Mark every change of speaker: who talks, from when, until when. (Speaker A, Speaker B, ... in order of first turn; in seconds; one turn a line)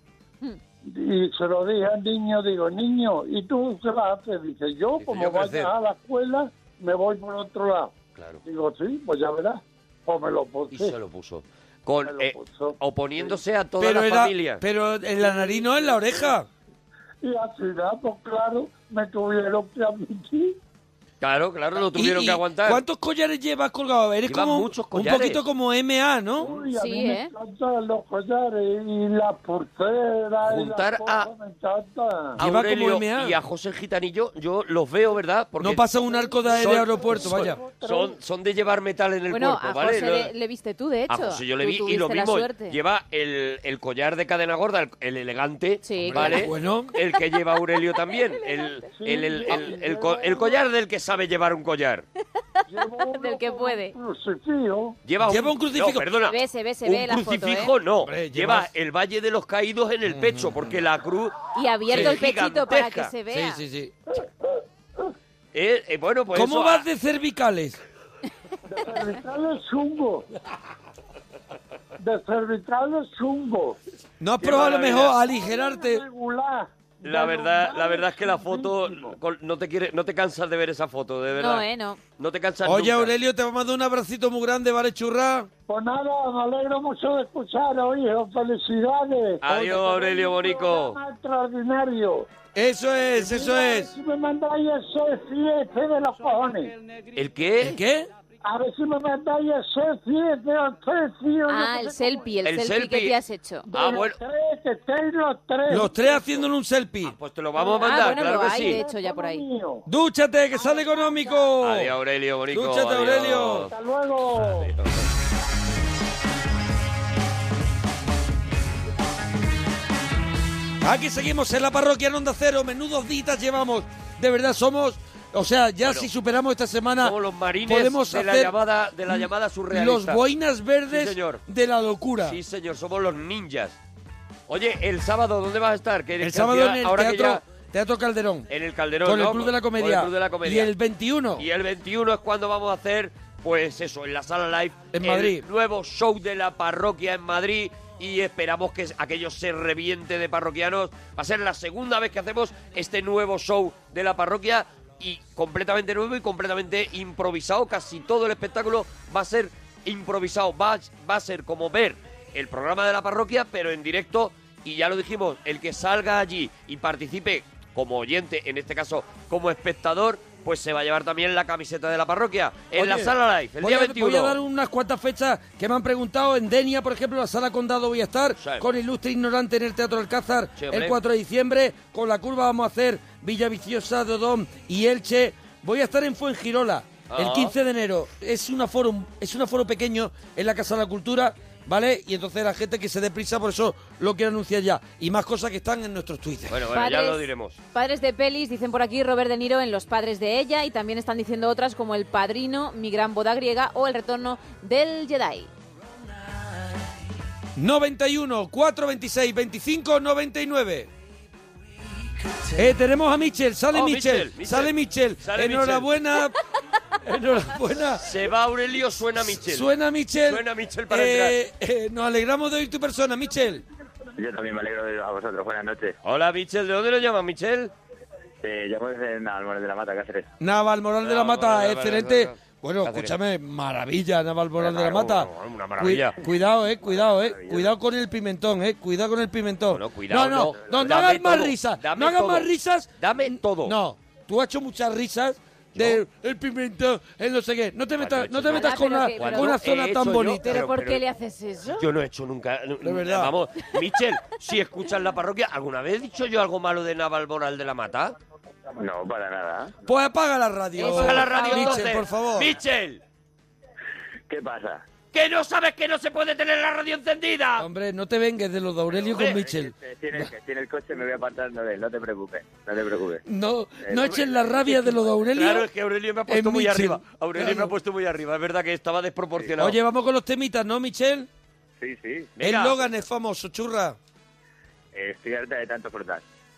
Speaker A: 0.8-7.9
Speaker B: 5.0-5.7
Speaker B: 8.2-8.4
Speaker A: 8.4-10.9
Speaker B: 10.7-14.6
Speaker A: 12.1-13.4
Speaker C: 13.8-16.5
Speaker A: 15.2-16.3
Speaker A: 17.2-20.6
Speaker B: 21.2-22.8
Speaker C: 21.9-26.5
Speaker B: 24.3-25.4
Speaker A: 26.4-32.4
Speaker D: 26.7-27.3
Speaker B: 30.4-31.3
Speaker B: 32.4-35.8
Speaker C: 32.4-33.3
Speaker C: 35.6-37.6
Speaker A: 36.0-38.2
Speaker B: 36.5-40.3
Speaker D: 39.3-42.8
Speaker B: 41.1-52.0
Speaker D: 45.8-46.4
Speaker C: 46.1-46.9
Speaker D: 48.4-48.7
Speaker A: 48.9-50.6
Speaker A: 52.7-55.0
Speaker D: 53.1-53.9
Speaker B: 55.0-63.1
Speaker C: 55.2-56.1
Speaker D: 56.2-57.7
Speaker C: 58.0-58.7
Speaker C: 60.0-60.6
Speaker D: 61.5-63.6
Speaker C: 61.9-62.2
Speaker C: 63.3-63.9
Speaker B: 65.5-66.8
Speaker C: 66.3-67.8
Speaker A: 68.7-70.3
Speaker A: 72.0-73.8
Speaker C: 74.2-76.0
Speaker B: 74.4-75.2
Speaker A: 75.2-79.2
Speaker B: 77.0-83.1
Speaker D: 81.4-82.0
Speaker C: 82.6-85.5
Speaker A: 85.7-92.3
Speaker B: 89.4-91.0
Speaker C: 92.5-93.9
Speaker A: 93.2-96.7
Speaker B: 97.1-97.8
Speaker C: 97.6-98.1
Speaker A: 98.4-102.4
Speaker D: 101.5-103.7
Speaker B: 102.4-103.2
Speaker A: 103.7-106.4
Speaker B: 103.7-104.2
Speaker C: 105.7-107.1
Speaker B: 107.0-108.8
Speaker A: 107.5-109.8
Speaker D: 107.8-109.4
Speaker C: 109.9-111.9
Speaker A: 110.6-111.4
Speaker B: 111.6-113.7
Speaker C: 112.5-113.7
Speaker A: 113.7-114.7
Speaker B: 114.3-115.1
Speaker C: 120.8-128.5
Speaker B: 125.8-126.1
Speaker B: 127.0-130.2
Speaker C: 129.1-132.4
Speaker B: 130.9-131.4
Speaker B: 132.2-133.8
Speaker B: 134.5-137.4
Speaker C: 136.2-138.5
Speaker B: 138.5-140.7
Speaker C: 139.0-141.4
Speaker B: 141.4-174.4
Speaker C: 144.9-145.4
Speaker C: 172.7-196.6
Speaker B: 178.4-178.7
Speaker B: 180.6-181.0
Speaker B: 187.1-187.5
Speaker B: 196.5-197.6
Speaker D: 196.7-205.5
Speaker C: 207.6-210.9
Speaker C: 212.6-216.4
Speaker B: 213.7-215.9
Speaker C: 217.0-218.0
Speaker B: 218.0-219.7
Speaker C: 219.3-223.6
Speaker B: 220.2-221.4
Speaker E: 224.2-225.9
Speaker B: 226.0-227.7
Speaker E: 228.4-230.3
Speaker C: 230.4-250.6
Speaker B: 231.0-233.2
Speaker B: 234.6-236.2
Speaker E: 236.8-237.7
Speaker B: 239.7-243.8
Speaker B: 245.7-246.0
Speaker B: 248.0-251.0
Speaker D: 248.5-249.6
Speaker D: 250.4-251.8
Speaker B: 251.8-258.1
Speaker C: 252.8-253.3
Speaker E: 258.8-259.7
Speaker C: 259.9-262.5
Speaker D: 260.8-261.9
Speaker B: 260.8-263.0
Speaker E: 264.3-264.8
Speaker B: 265.1-267.6
Speaker C: 267.6-269.7
Speaker E: 269.0-273.2
Speaker B: 269.1-269.4
Speaker C: 273.2-275.7
Speaker E: 273.8-274.3
Speaker B: 274.6-279.8
Speaker C: 276.3-277.7
Speaker C: 279.6-281.3
Speaker E: 281.8-282.3
Speaker B: 282.4-282.9
Speaker C: 282.4-284.0
Speaker E: 284.9-286.2